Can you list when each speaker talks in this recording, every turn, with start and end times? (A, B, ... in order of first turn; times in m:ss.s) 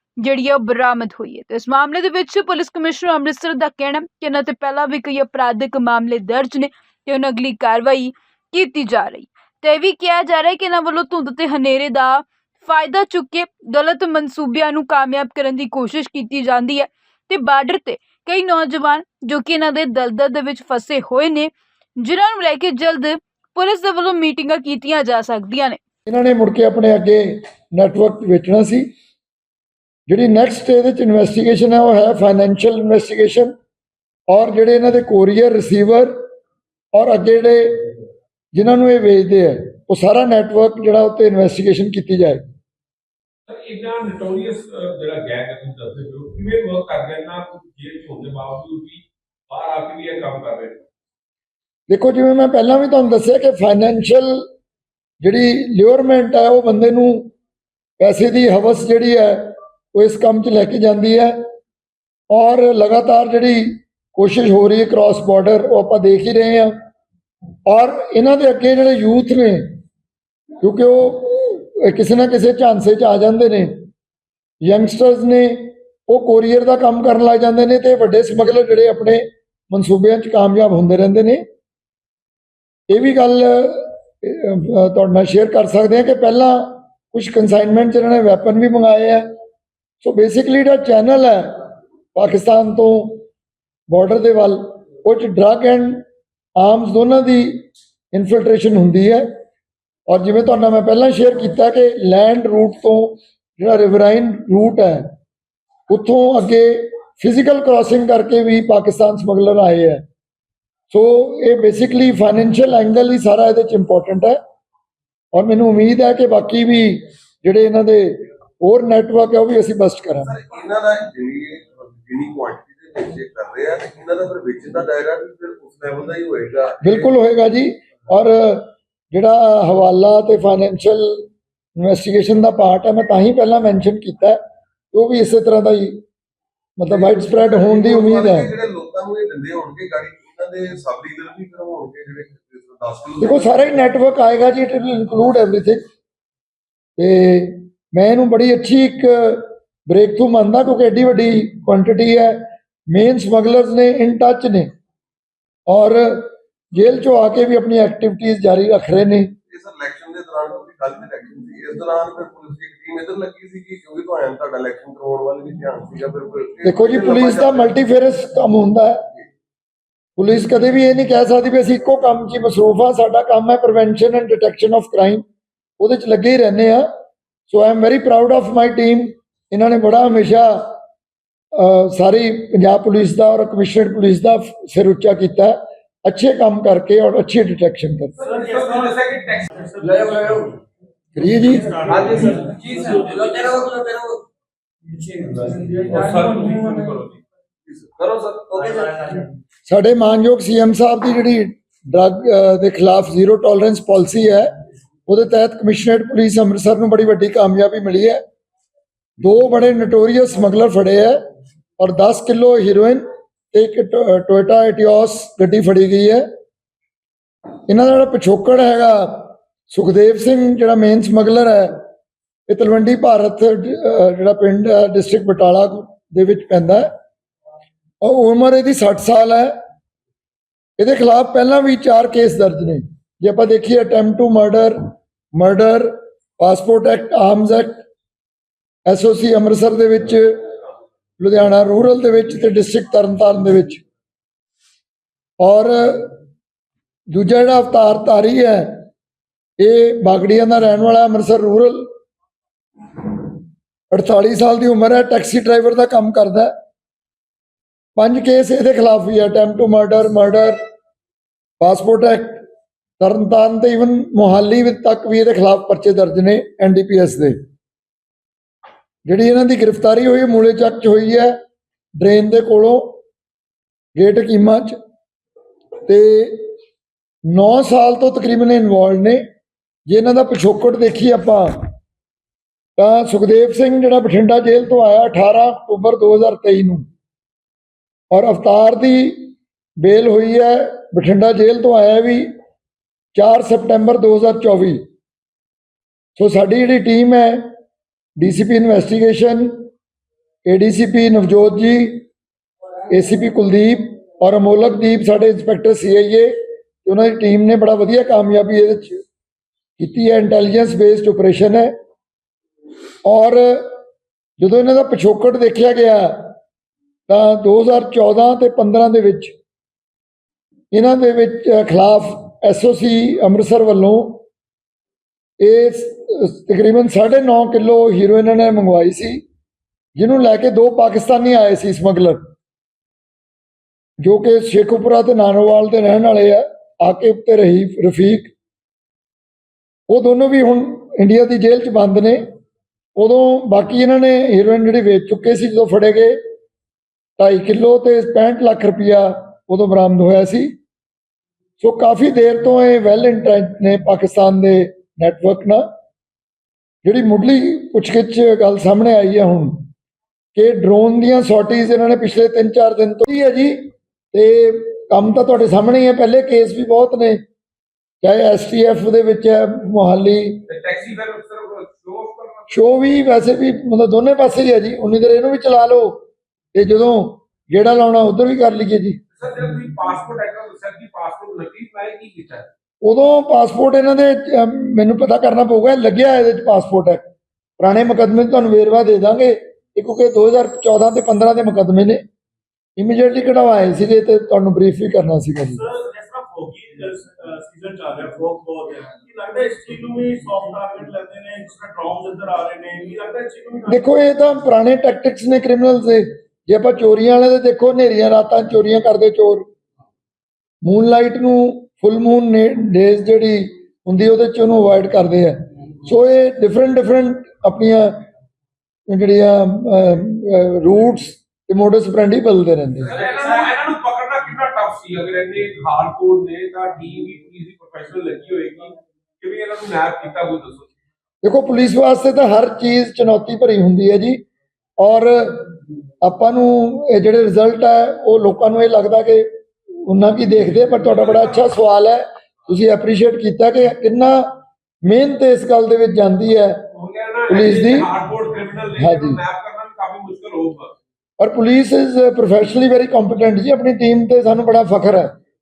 0:00.2-0:25.8 A
0:26.1-0:28.9 B
0:30.1-0:33.5 B
0:34.3-0:36.1 B
0:36.9-0:37.8 B
0:38.5-0:42.4 B
0:43.5-0:50.8 C
0:51.9-0:54.4 B
0:55.2-0:57.3 B
0:58.0-1:01.4 B
1:02.3-1:06.7 B
1:07.7-1:09.6 B
1:10.6-1:13.8 B
1:14.6-1:21.4 B
1:22.9-1:29.2 B
1:30.0-1:31.6 B
1:32.1-1:33.2 B
1:33.9-1:36.0 B
1:36.6-1:39.3 B
1:40.1-1:45.1 B
1:45.9-1:50.0 B
1:50.9-1:54.4 B
1:55.3-2:00.3 B
2:00.2-2:07.1 D
2:06.8-2:11.2 B
2:11.8-2:14.4 B
2:14.9-2:16.0 B
2:16.8-2:18.5 B
2:16.9-2:23.8 D
2:23.2-2:25.8 B
2:27.0-2:34.7 B
2:35.7-2:39.3 B
2:39.5-2:47.8 D
2:46.6-2:49.0 B
2:50.2-2:55.2 B
2:55.8-2:56.9 B
2:57.5-3:00.7 B
3:01.5-3:08.1 B
3:08.2-3:09.6 C
3:08.2-3:10.4 E
3:09.8-3:10.5 F
3:11.2-3:11.7 B
3:11.5-3:13.3 E
3:11.7-3:14.2 F
3:11.9-3:12.8 C
3:14.9-3:16.7 F
3:15.5-3:17.2 C
3:18.0-3:18.5 C
3:18.2-3:19.2 F
3:19.7-3:24.5 B
3:25.1-3:28.2 B
3:29.2-3:31.2 B
3:31.8-3:36.2 B
3:37.7-3:41.8 B
3:42.5-3:46.9 B
3:48.0-3:49.5 B
3:50.8-3:54.8 B
3:55.3-3:57.8 B
3:58.8-4:00.4 B
4:01.2-4:03.8 B
4:05.4-4:06.1 B
4:07.1-4:08.8 B
4:09.6-4:11.9 B
4:13.9-4:16.5 B
4:18.0-4:20.6 B
4:21.6-4:22.4 B
4:23.0-4:27.4 B
4:29.0-4:31.3 B
4:32.0-4:33.0 B
4:34.0-4:34.8 B
4:35.8-4:36.5 B
4:37.3-4:39.2 B
4:39.9-4:41.6 B
4:42.8-4:46.8 B
4:48.1-4:52.3 B
4:53.1-4:54.8 B
4:56.2-4:57.5 B
4:58.2-4:59.7 B
5:00.4-5:02.0 B
5:02.9-5:06.3 B
5:06.8-5:09.0 B
5:09.8-5:11.7 B
5:13.0-5:13.7 B
5:14.4-5:16.3 B
5:17.1-5:19.3 B
5:20.7-5:24.2 B
5:25.4-5:29.2 B
5:30.0-5:32.3 B
5:34.0-5:38.3 B
5:39.9-5:42.2 B
5:43.0-5:46.2 B
5:47.2-5:50.5 B
5:51.6-5:55.6 B
5:56.8-5:59.6 B
6:00.3-6:07.2 B
6:08.0-6:10.4 B
6:10.5-6:12.8 C
6:12.5-6:16.0 B
6:16.5-6:19.0 B
6:19.1-6:22.5 C
6:22.8-6:27.0 B
6:27.6-6:32.0 B
6:32.8-6:35.6 B
6:35.5-6:43.8 E
6:43.6-6:49.5 B
6:50.6-6:57.9 B
6:58.9-7:02.9 B
7:02.8-7:10.7 C
7:11.2-7:14.2 B
7:14.8-7:15.5 B
7:16.0-7:26.6 B
7:20.8-7:21.4 C
7:26.7-7:30.7 C
7:27.3-7:27.9 B
7:28.8-7:29.2 B
7:31.2-7:35.1 B